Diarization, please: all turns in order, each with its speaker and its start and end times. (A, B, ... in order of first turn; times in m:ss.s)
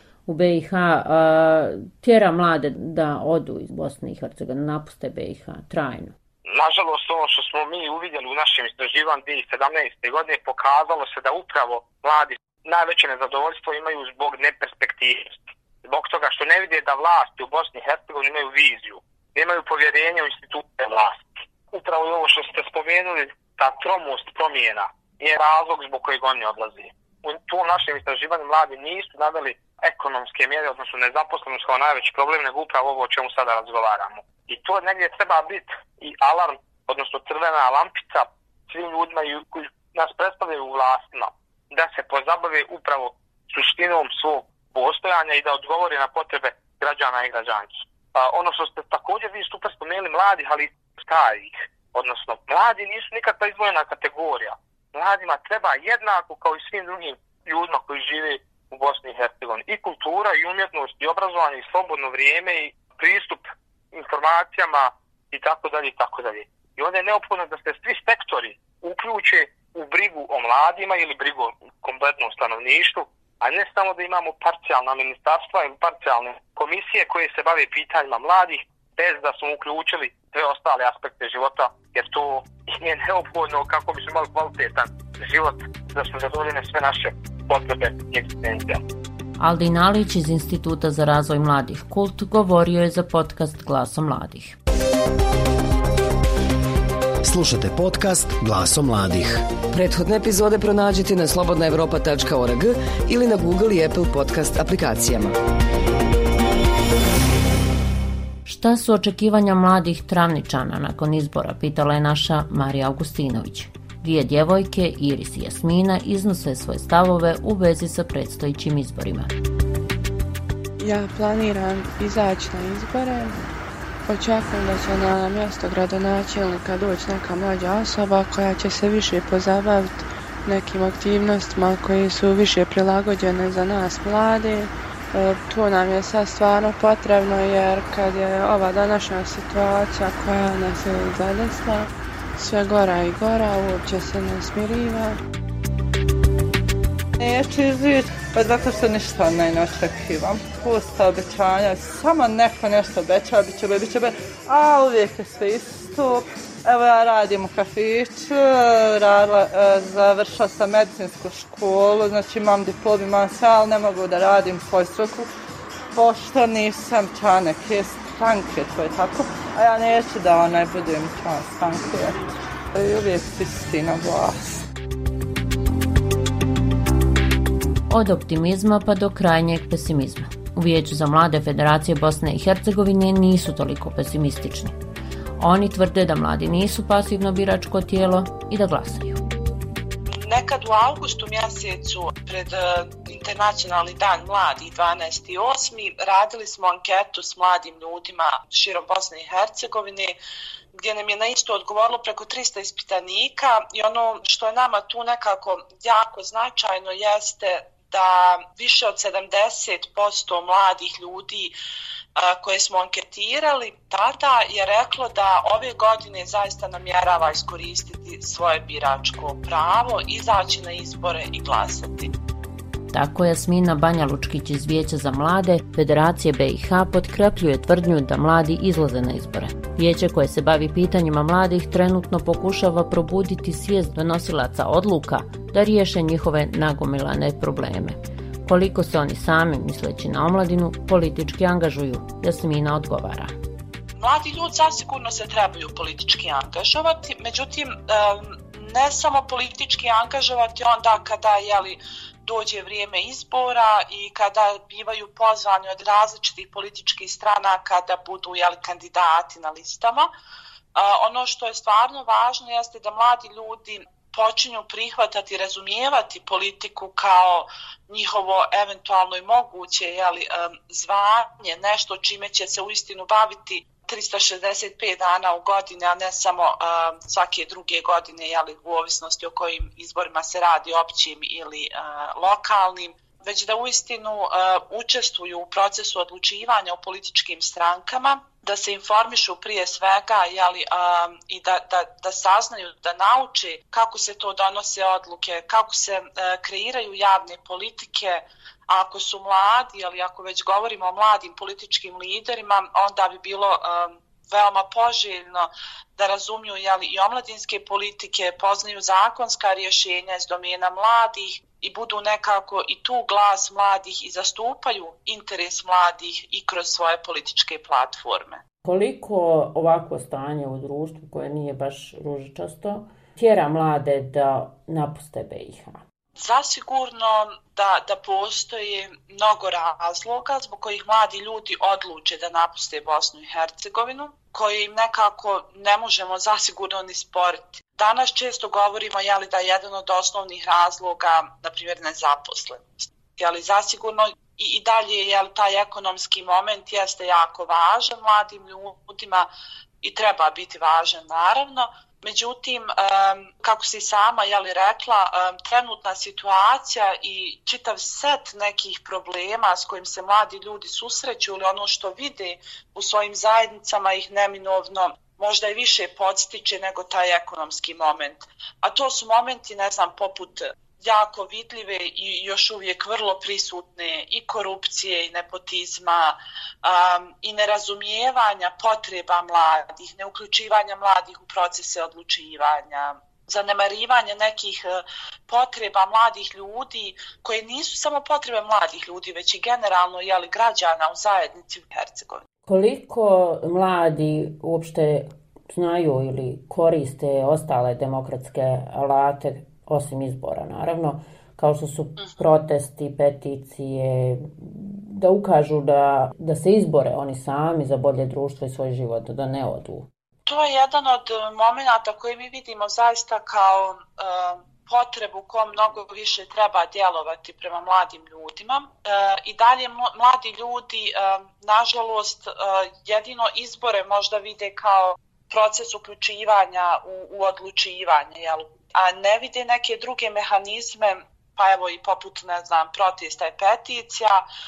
0:00.3-0:06.2 A
0:06.5-1:28.8 B
1:29.4-1:34.6 A
1:37.2-1:39.5 C
1:39.7-1:45.3 D
1:48.5-1:59.3 A
2:00.8-2:03.4 E
2:04.1-2:25.2 E
2:27.2-2:45.3 F
2:45.9-2:54.6 F
2:57.9-3:04.8 A
3:05.4-3:09.2 A
3:10.1-3:20.2 G
3:20.8-3:31.5 G
3:32.2-3:42.1 G
3:42.9-4:03.3 A
4:04.0-4:20.1 G
4:20.8-5:18.4 G
5:18.6-5:25.8 A
5:26.2-5:49.3 G
5:49.8-6:32.2 G
6:32.5-6:49.9 A
6:50.3-7:14.2 G